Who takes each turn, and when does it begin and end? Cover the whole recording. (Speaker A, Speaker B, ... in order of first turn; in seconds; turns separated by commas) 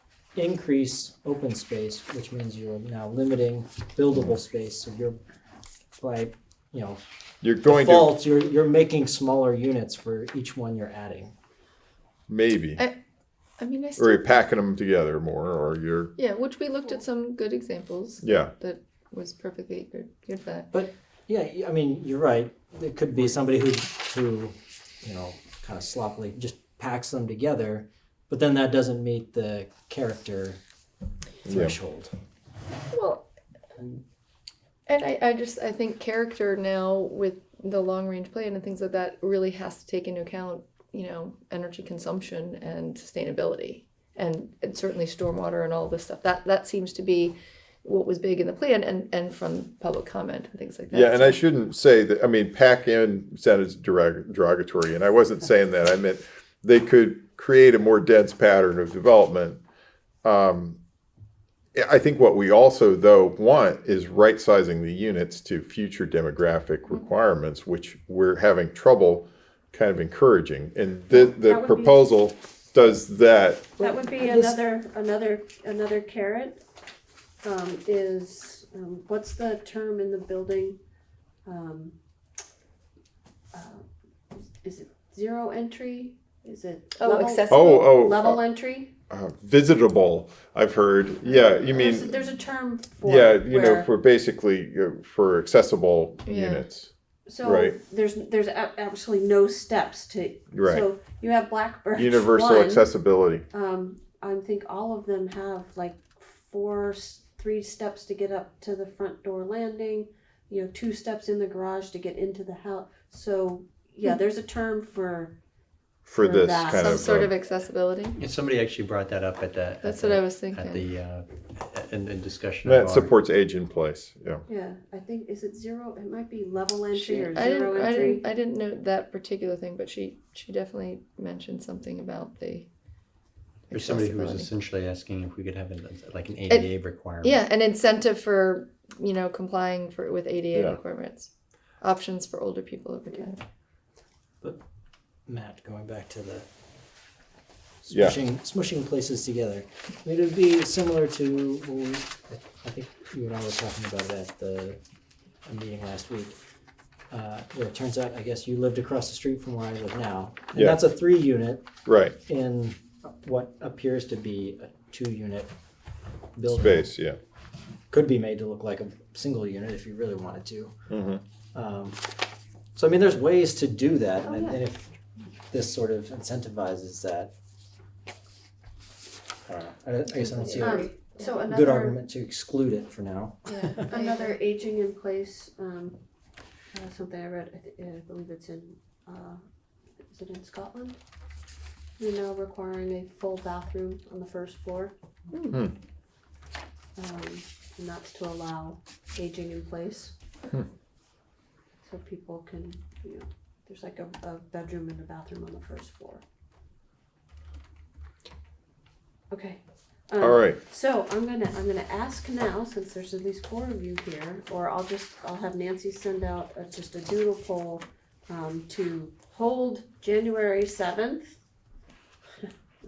Speaker A: 0.3-5.2, Speaker A: 6.0-7.0, Speaker B: 7.4-8.2, Speaker A: 7.6-11.3, Speaker B: 12.3-12.8, Speaker C: 13.6-14.3, Speaker B: 14.0-16.1, Speaker C: 16.1-20.7, Speaker B: 18.2-18.5, Speaker A: 20.7-30.6, Speaker B: 31.4-31.8, Speaker A: 31.4-32.1, Speaker C: 32.9-33.2, Speaker C: 34.9-51.4, Speaker B: 50.9-59.6, Speaker B: 60.2-60.8, Speaker B: 61.7-73.9, Speaker D: 71.1-72.0, Speaker D: 73.8-76.6, Speaker C: 73.9-74.6, Speaker D: 77.4-80.8, Speaker D: 81.5-81.9, Speaker D: 83.5-88.9, Speaker C: 87.0-87.9, Speaker B: 87.5-88.4, Speaker B: 89.1-92.1, Speaker D: 91.2-93.9, Speaker B: 93.0-97.8, Speaker C: 96.2-96.7, Speaker D: 97.2-102.8, Speaker B: 100.5-100.9, Speaker B: 101.9-103.5, Speaker D: 103.5-115.3, Speaker B: 116.0-117.3, Speaker D: 116.2-117.3, Speaker C: 116.6-118.2, Speaker E: 118.2-123.1, Speaker C: 119.8-120.8, Speaker B: 122.6-124.4, Speaker D: 124.5-128.2, Speaker C: 126.9-132.7, Speaker C: 133.7-134.5, Speaker E: 133.7-137.4, Speaker C: 137.2-143.4, Speaker B: 140.5-140.8, Speaker A: 145.3-146.5, Speaker A: 147.8-154.8, Speaker B: 147.9-148.2, Speaker A: 155.4-156.4, Speaker A: 157.1-161.7, Speaker B: 160.5-160.8, Speaker B: 161.8-162.2, Speaker A: 162.2-165.5, Speaker A: 166.3-166.9, Speaker B: 166.4-167.2, Speaker A: 167.9-170.7, Speaker B: 170.9-171.2, Speaker A: 171.5-172.0, Speaker A: 172.7-174.9, Speaker D: 174.2-174.6, Speaker A: 175.5-177.3, Speaker A: 179.5-180.9, Speaker C: 180.2-181.2, Speaker D: 180.5-182.0, Speaker A: 181.4-183.9, Speaker D: 183.9-186.0, Speaker D: 186.7-189.4, Speaker D: 190.1-191.0, Speaker D: 192.0-194.9, Speaker C: 195.3-195.6, Speaker D: 196.9-200.1, Speaker D: 201.8-206.2, Speaker D: 209.3-221.4, Speaker B: 210.2-210.6